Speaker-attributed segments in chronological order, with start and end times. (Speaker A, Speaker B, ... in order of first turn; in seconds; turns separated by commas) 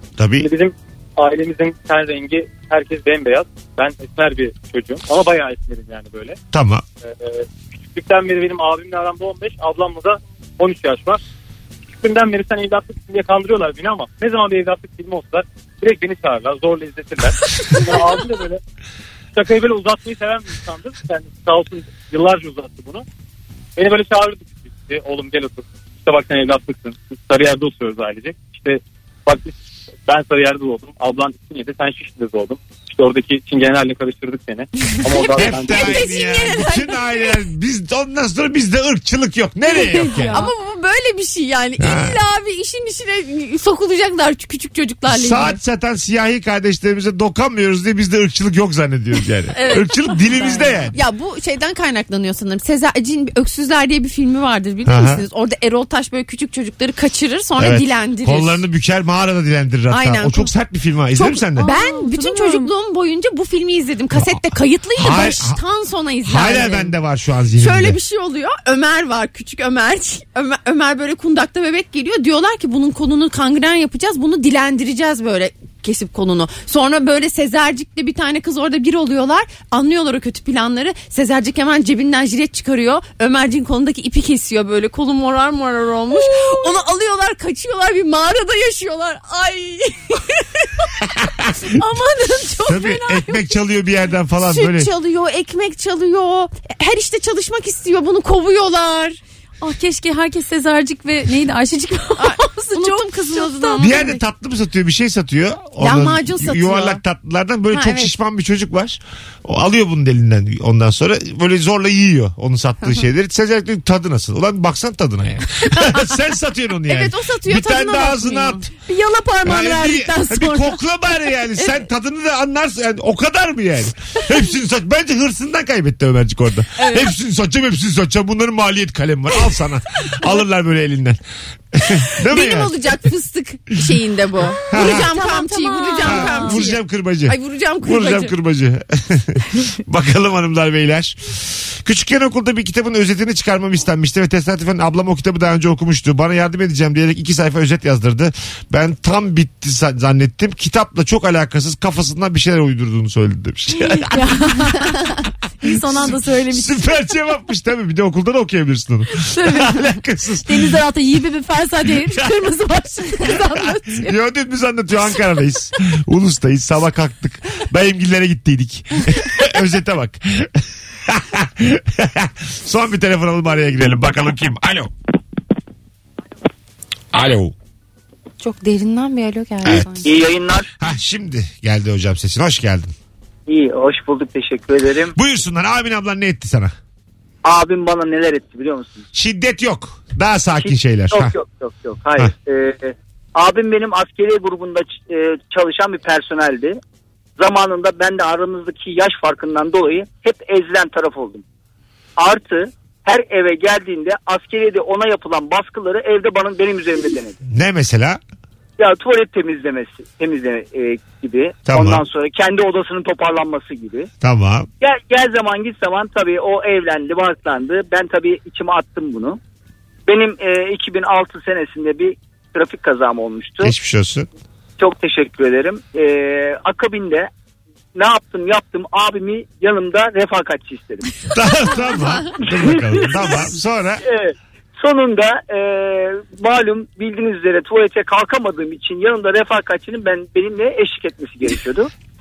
Speaker A: 0.2-0.5, Speaker B: 0.4-6.4, Speaker A: 6.5-6.8, Speaker B: 7.1-11.2, Speaker B: 11.9-18.6, Speaker B: 19.4-23.1, Speaker B: 23.8-29.5, Speaker B: 30.1-36.0, Speaker C: 35.0-37.1, Speaker A: 35.3-40.4, Speaker D: 39.7-40.5, Speaker C: 40.2-45.6, Speaker A: 41.8-42.2, Speaker A: 45.1-51.0, Speaker C: 49.5-49.9, Speaker D: 50.2-50.9, Speaker C: 50.9-58.6, Speaker A: 54.9-55.2, Speaker A: 57.6-61.7, Speaker C: 59.9-60.5, Speaker C: 61.1-66.9, Speaker D: 61.6-62.7, Speaker A: 64.2-64.4, Speaker A: 65.0-65.6, Speaker A: 66.2-68.0, Speaker C: 67.5-90.9, Speaker D: 86.1-86.7, Speaker A: 91.2-91.5, Speaker D: 91.7-93.4, Speaker A: 92.7-94.9, Speaker C: 94.4-99.2, Speaker D: 99.6-103.9, Speaker C: 102.2-104.2, Speaker A: 103.8-118.7, Speaker C: 105.8-107.0, Speaker C: 107.7-108.1, Speaker C: 116.8-118.7, Speaker D: 118.9-120.8, Speaker A: 119.5-131.2, Speaker C: 126.8-127.1, Speaker A: 131.7-132.8, Speaker C: 132.2-138.3, Speaker D: 134.5-136.7, Speaker A: 134.7-135.1, Speaker A: 136.1-154.4, Speaker D: 154.0-156.9, Speaker A: 156.0-160.8, Speaker D: 159.2-164.2, Speaker A: 163.3-174.9, Speaker A: 177.1-177.5, Speaker C: 178.4-180.1, Speaker A: 179.6-180.0, Speaker E: 180.1-180.7, Speaker A: 180.8-182.9, Speaker E: 183.5-185.1, Speaker A: 185.2-186.7, Speaker E: 187.4-189.1, Speaker A: 189.1-191.3, Speaker E: 190.6-196.8, Speaker E: 197.4-201.4, Speaker E: 202.2-207.4, Speaker A: 207.5-208.2, Speaker E: 208.8-214.1, Speaker A: 211.7-212.0, Speaker A: 214.2-214.7, Speaker E: 214.8-219.4, Speaker E: 220.1-223.7, Speaker A: 223.6-224.3, Speaker E: 224.8-227.3, Speaker E: 227.9-231.1, Speaker A: 231.3-234.0, Speaker E: 232.4-233.5, Speaker E: 234.1-241.9